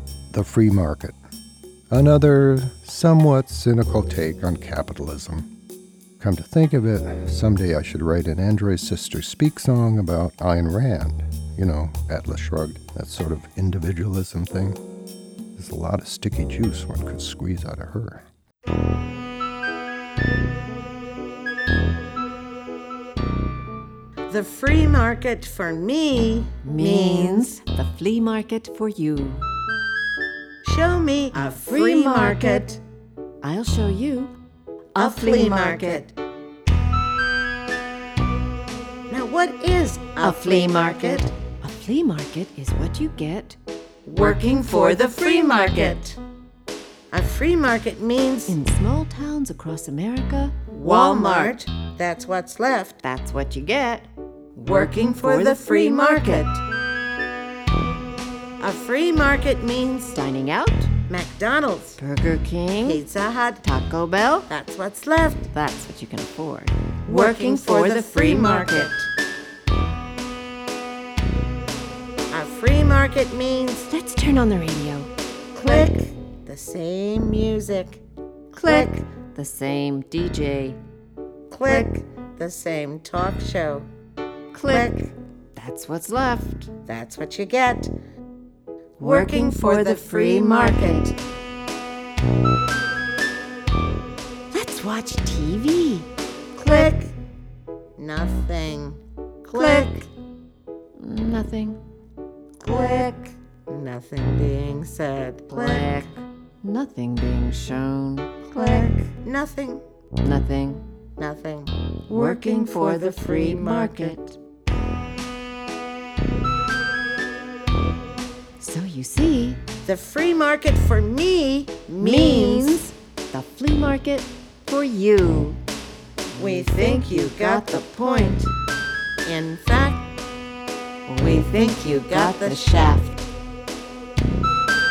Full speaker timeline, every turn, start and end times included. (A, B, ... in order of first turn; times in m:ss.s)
0:00.3-0:01.2 A
0:01.9-0:05.5 A
0:06.2-0:14.8 A
0:15.6-0:18.2 A
0:24.3-0:27.6 B
0:26.6-0:29.4 C
0:30.6-0:32.8 B
0:31.3-0:32.7 C
0:33.4-0:34.3 C
0:35.0-0:36.1 C
0:35.0-0:36.1 B
0:39.1-0:41.3 B
0:40.2-0:43.6 C
0:44.1-0:46.2 B
0:47.1-0:48.6 B
0:48.5-0:51.6 C
0:50.7-0:53.0 B
0:53.0-0:54.1 C
0:54.6-0:56.6 B
0:54.7-0:56.4 C
0:58.6-1:00.2 B
1:00.1-1:00.9 C
1:01.1-1:02.0 B
1:02.0-1:03.0 C
1:02.8-1:03.6 B
1:03.6-1:04.5 C
1:04.5-1:05.5 B
1:05.5-1:08.9 C
1:07.1-1:09.1 B
1:12.3-1:13.9 B
1:13.9-1:15.1 C
1:15.6-1:18.0 B
1:18.5-1:19.0 B
1:18.6-1:20.8 C
1:21.5-1:23.9 B
1:24.5-1:26.7 C
1:24.7-1:25.1 B
1:26.9-1:27.9 B
1:29.0-1:31.2 B
1:29.0-1:31.1 C
1:34.5-1:36.1 C
1:36.6-1:37.1 B
1:38.0-1:40.1 B
1:39.5-1:40.1 C
1:41.0-1:41.8 C
1:42.6-1:46.1 B
1:45.5-1:48.9 C
1:48.5-1:49.8 B
1:50.2-1:50.8 C
1:51.2-1:54.2 B
1:52.1-1:54.4 C
1:58.6-1:59.6 C
1:59.8-2:02.8 B
2:02.0-2:05.6 C
2:06.3-2:08.2 C
2:06.4-2:08.5 B
2:09.2-2:10.0 B
2:11.1-2:13.1 C
2:11.2-2:13.1 B